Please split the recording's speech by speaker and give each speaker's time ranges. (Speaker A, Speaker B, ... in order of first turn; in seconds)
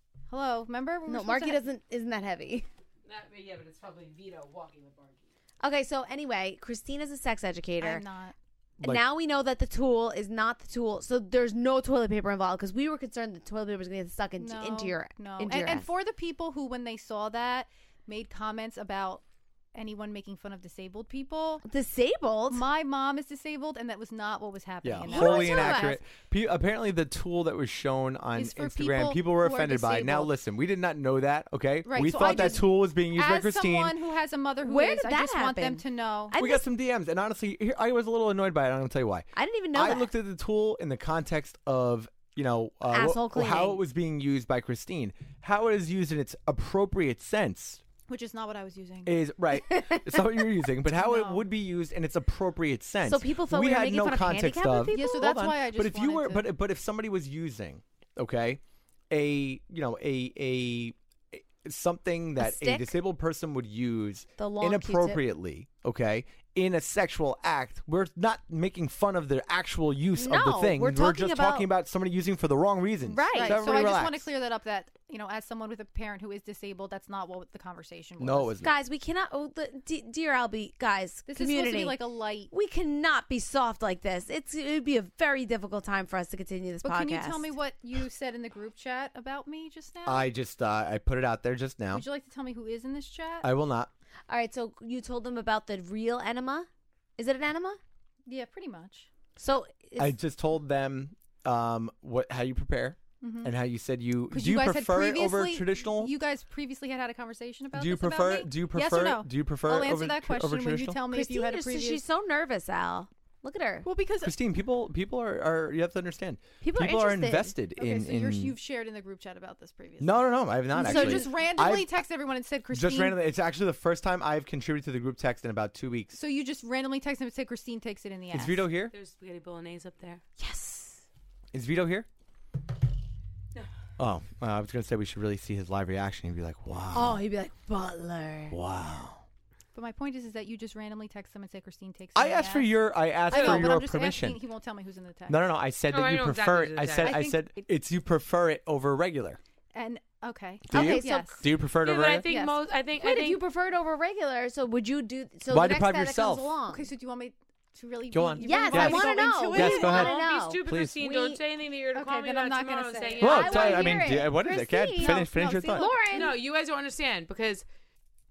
Speaker A: 0.3-1.6, 7.8-8.3, 14.4-19.2, 19.7-21.6, 22.5-26.0, 28.4-30.3, 31.9-36.3, 48.1-49.2, 50.9-51.4, 54.9-56.5, 73.3-78.6, 81.3-82.5, 86.8-90.2, 91.9-93.5, 98.3-99.1, 103.2-103.5, 104.3-112.0, 113.8-114.3, 117.8-123.2, 126.1-128.7, 139.7-142.7, 143.3-145.5, 147.0-147.7, 149.7-151.4, 152.2-152.6, 156.7-160.2, 161.9-164.0, 165.0-166.3
Speaker B: 1.1-2.7, 5.6-8.0, 8.8-15.9, 21.6-22.7, 25.1-26.0, 32.0-32.6, 34.6-36.7, 39.4-40.1, 42.9-43.8, 49.6-50.4, 53.0-55.3, 62.4-63.0, 64.4-65.2, 70.1-71.7, 73.0-73.9, 78.6-87.5, 94.3-97.8, 99.4-100.2, 111.1-113.9, 116.6-117.6, 120.8-121.3, 130.4-131.0, 136.9-138.6, 150.7-151.4, 153.0-156.9, 158.4-161.4, 163.2-166.4
Speaker C: 3.1-5.3, 128.9-130.2, 143.3-143.7, 145.9-147.2, 151.8-153.4, 159.8-164.1, 166.1-167.7
Speaker D: 24.8-33.9, 36.4-47.8, 49.0-74.3, 78.2-78.8, 90.0-92.1, 93.4-93.9, 100.0-106.1, 107.7-111.0, 114.2-118.6, 120.0-121.9, 122.7-126.2, 128.3-128.9, 131.5-132.1, 134.0-137.2, 138.5-139.2, 142.2-144.4, 145.3-149.4, 150.7-152.3, 155.5-156.6, 158.1-160.1, 160.7-161.0, 163.2-165.9